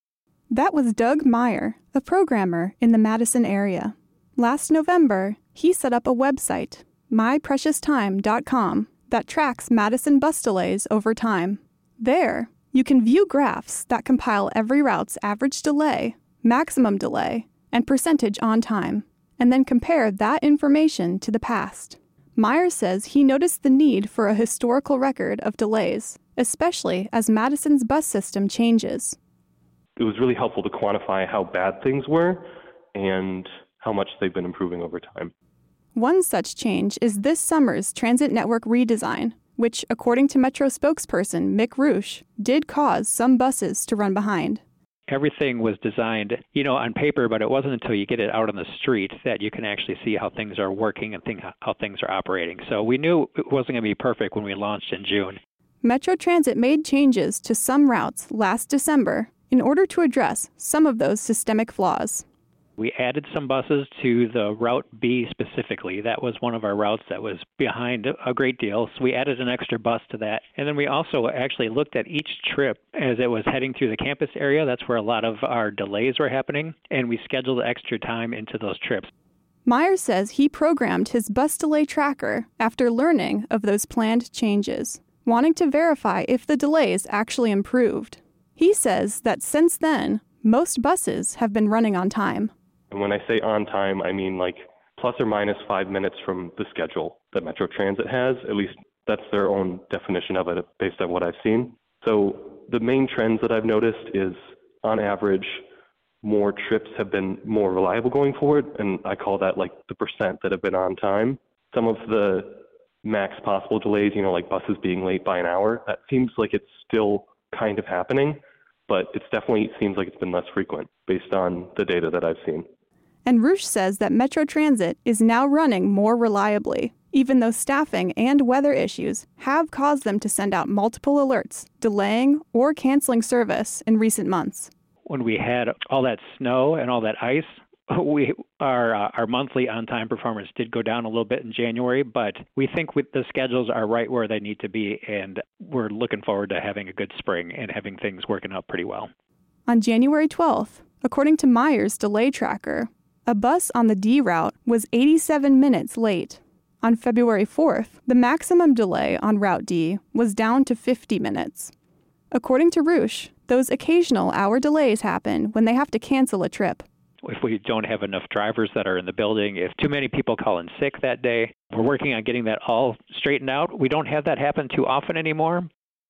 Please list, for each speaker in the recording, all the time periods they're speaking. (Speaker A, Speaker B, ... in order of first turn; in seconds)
Speaker A: 0.5-29.2, 35.9-44.6, 55.8-62.2, 79.6-92.5, 123.2-134.7, 149.7-161.7, 162.3-166.8
Speaker B: 30.0-35.3, 92.9-105.6, 106.2-122.7
Speaker C: 45.1-55.4, 62.8-79.1, 135.1-149.1, 167.2-175.7